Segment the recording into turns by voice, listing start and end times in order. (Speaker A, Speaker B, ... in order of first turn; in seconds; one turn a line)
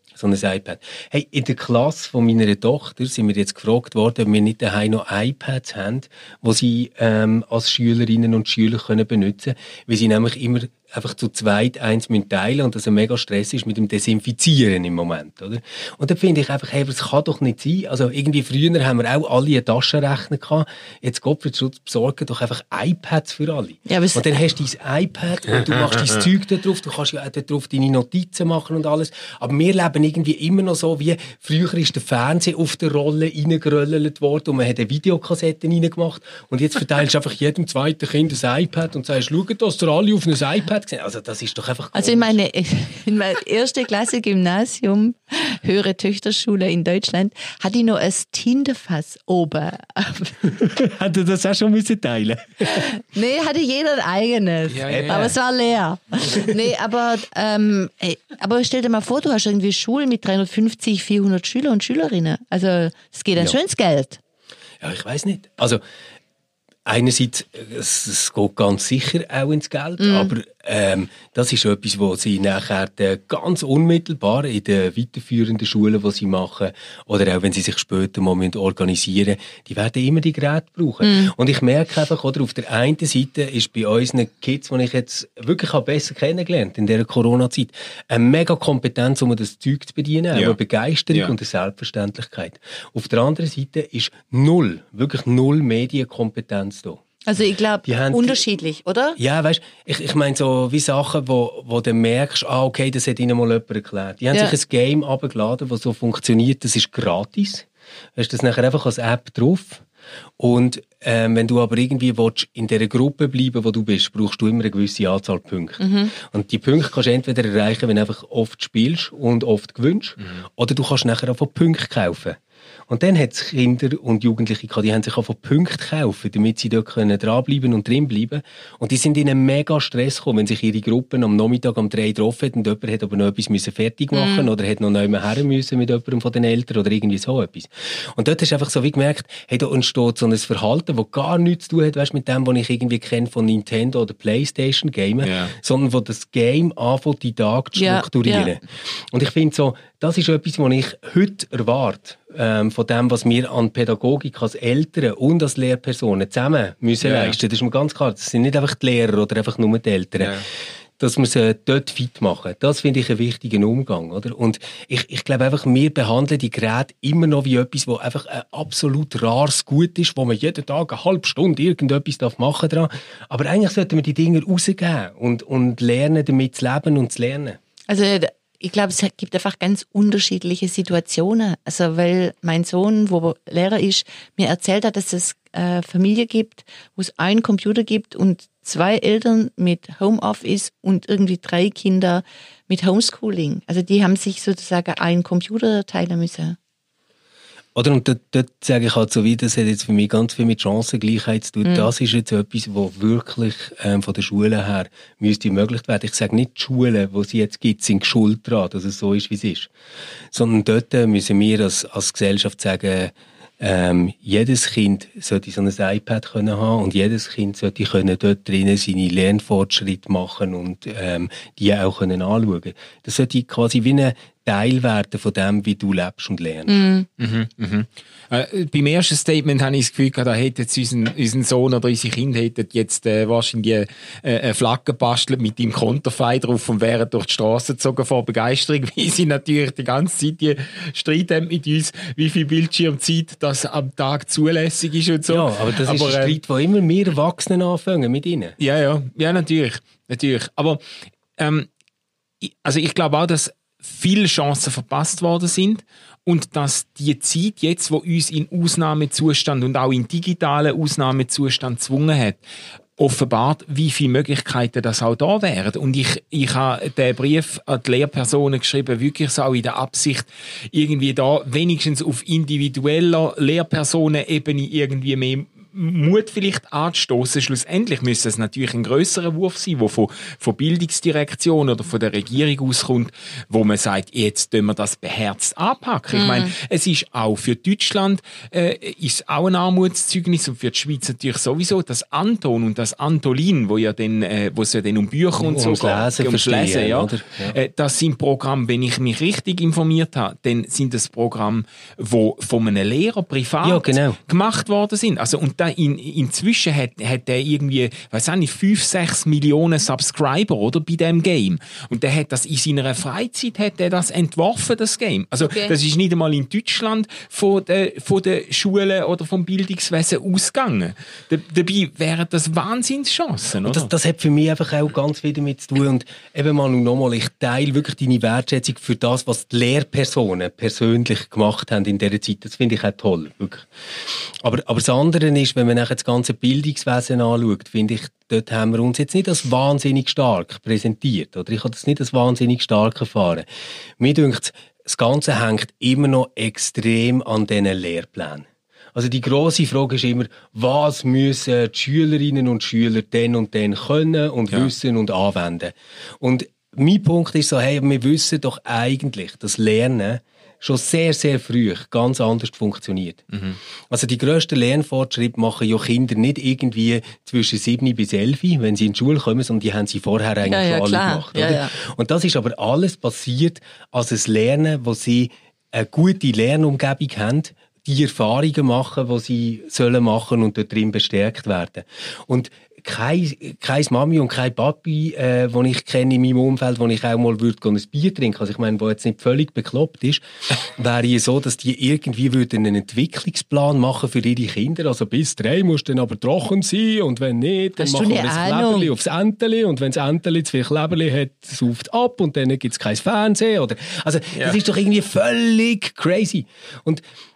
Speaker A: 0.1-42.4
Speaker B: 23.9-24.3
Speaker B: 41.9-50.5
Speaker A: 50.5-52.9
Speaker B: 52.7-64.2
Speaker C: 54.7-55.4
Speaker A: 54.9-55.3
Speaker A: 56.2-56.5
Speaker A: 64.8-65.8
Speaker A: 66.9-97.0
Speaker B: 70.0-70.3
Speaker B: 81.0-81.3
Speaker B: 97.2-99.2
Speaker A: 97.8-98.4
Speaker A: 99.2-109.8
Speaker A: 110.4-122.4
Speaker B: 115.8-116.1
Speaker A: 122.9-160.4
Speaker B: 134.1-134.5
Speaker C: 145.2-145.6
Speaker B: 147.8-148.6
Speaker C: 157.0-157.4
Speaker C: 160.2-160.5
Speaker A: 161.0-177.6
Speaker B: 177.9-196.6
Speaker A: 197.8-209.7
Speaker B: 201.6-201.9
Speaker A: 210.3-226.8
Speaker B: 226.7-227.1
Speaker C: 227.2-246.4
Speaker A: 245.3-248.6
Speaker C: 248.6-250.8
Speaker C: 251.4-251.7
Speaker C: 252.4-262.4
Speaker C: 263.0-323.9
Speaker B: 286.1-286.5
Speaker A: 295.4-297.6
Speaker A: 303.6-304.2
Speaker B: 315.4-315.8
Speaker A: 323.6-333.7
Speaker A: 334.4-343.4
Speaker A: 344.0-363.2
Speaker C: 363.3-363.6
Speaker A: 363.9-407.0
Speaker B: 370.4-371.7
Speaker B: 397.8-398.9